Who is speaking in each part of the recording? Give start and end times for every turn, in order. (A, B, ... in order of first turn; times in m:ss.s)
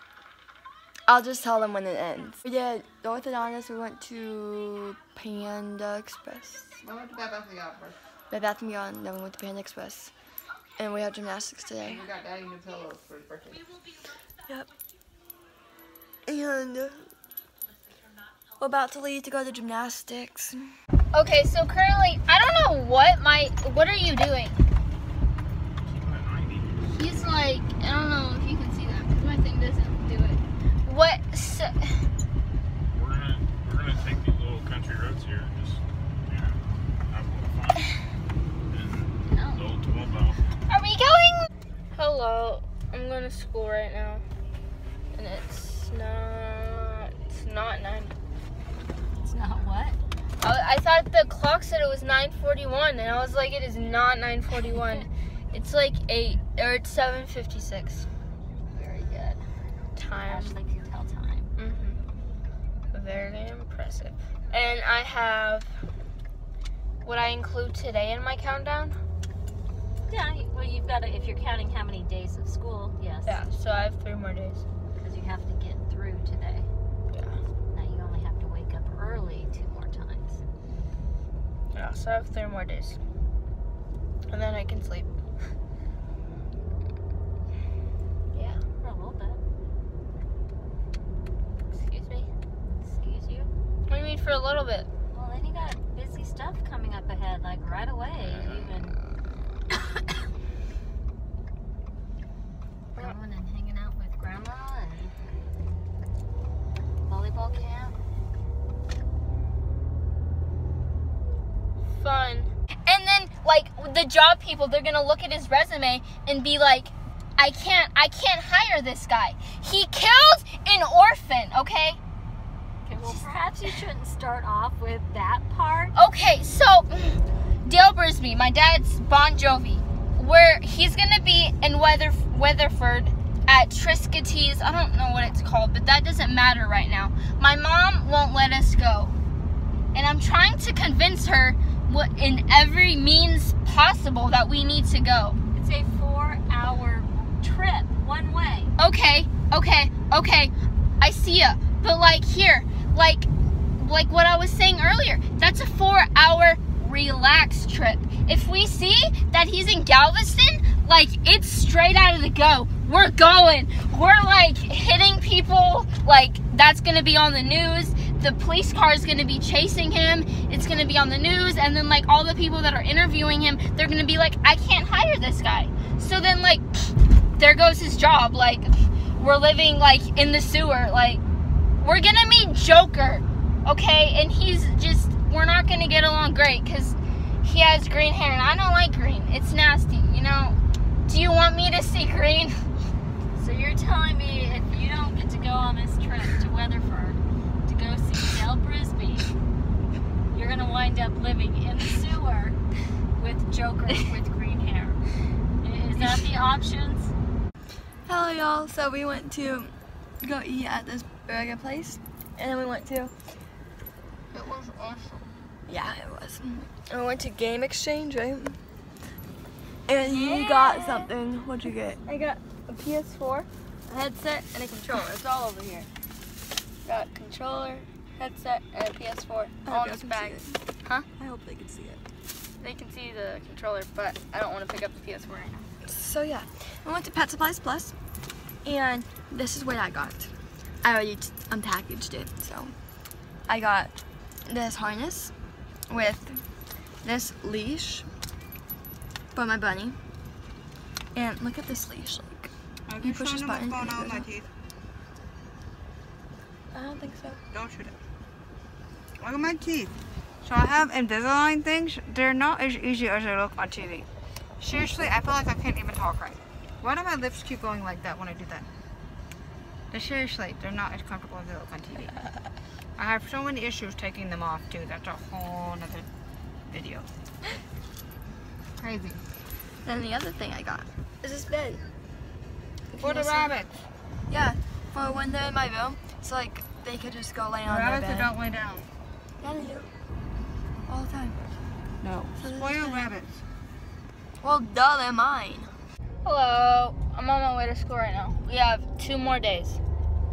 0:01.1-0:06.8 A
0:06.8-0:08.0 B
0:08.3-0:10.1 A
0:10.8-0:12.0 A
0:11.8-0:13.8 B
0:16.2-0:17.1 A
0:18.6-0:20.7 A
0:21.1-0:24.6 C
0:25.8-0:26.7 D
0:26.9-0:32.0 C
0:32.9-0:38.0 D
0:38.7-0:40.4 D
0:39.3-0:39.6 E
0:40.7-0:44.2 C
0:45.1-0:48.1 C
0:49.2-0:50.0 E
0:50.4-0:58.1 C
0:54.6-0:55.1 E
0:58.7-0:59.4 E
1:00.0-1:00.6 C
1:00.2-1:01.5 E
1:01.6-1:02.0 C
1:02.9-1:05.7 C
1:07.0-1:09.0 C
1:10.0-1:13.4 E
1:13.2-1:14.6 C
1:15.0-1:16.7 E
1:17.1-1:17.4 C
1:17.7-1:20.4 E
1:21.7-1:23.0 C
1:24.3-1:25.1 C
1:28.3-1:28.6 C
1:28.8-1:29.4 E
1:31.7-1:32.3 C
1:32.8-1:33.5 E
1:33.9-1:34.9 C
1:35.1-1:39.0 E
1:42.9-1:45.1 E
1:47.0-1:48.0 E
1:51.9-2:02.0 C
2:02.8-2:06.0 E
2:03.0-2:03.8 C
2:05.9-2:19.2 C
2:19.9-2:25.4 C
2:25.5-2:28.7 E
2:28.8-2:33.3 C
2:33.8-3:01.2 C
3:01.8-3:12.6 C
3:13.4-3:19.3 E
3:20.3-3:22.6 E
3:23.2-3:25.0 E
3:25.6-3:27.1 E
3:26.0-3:26.2 C
3:28.0-3:29.7 A
3:30.2-3:33.1 A
3:34.3-3:35.3 C
3:35.6-3:38.6 A
3:39.9-3:42.0 A
3:40.0-3:41.1 C
3:42.0-3:45.9 C
3:46.8-3:51.1 C
3:49.6-3:50.6 A
3:51.2-3:52.0 A
3:52.6-3:55.7 C
3:55.8-3:57.9 A
3:58.6-4:00.3 A
4:00.8-4:02.7 A
4:03.5-4:03.9 A
4:04.4-4:05.3 A
4:05.9-4:06.3 A
4:07.0-4:08.1 A
4:09.3-4:10.0 A
4:11.1-4:14.3 A
4:12.9-4:14.5 B
4:16.7-4:17.4 A
4:17.5-4:18.0 B
4:19.2-4:24.0 B
4:24.6-4:28.7 B
4:29.9-4:32.2 B
4:33.0-4:36.1 B
4:36.7-4:37.1 B
4:38.8-4:39.2 B
4:39.8-4:41.8 A
4:42.9-4:43.5 A
4:43.0-4:43.8 B
4:44.3-4:48.3 A
4:47.7-4:48.9 B
4:49.4-4:49.9 A
4:50.9-4:51.4 A
4:52.0-4:53.4 B
4:52.4-4:53.1 A
4:54.4-4:55.7 A
4:56.2-4:59.8 C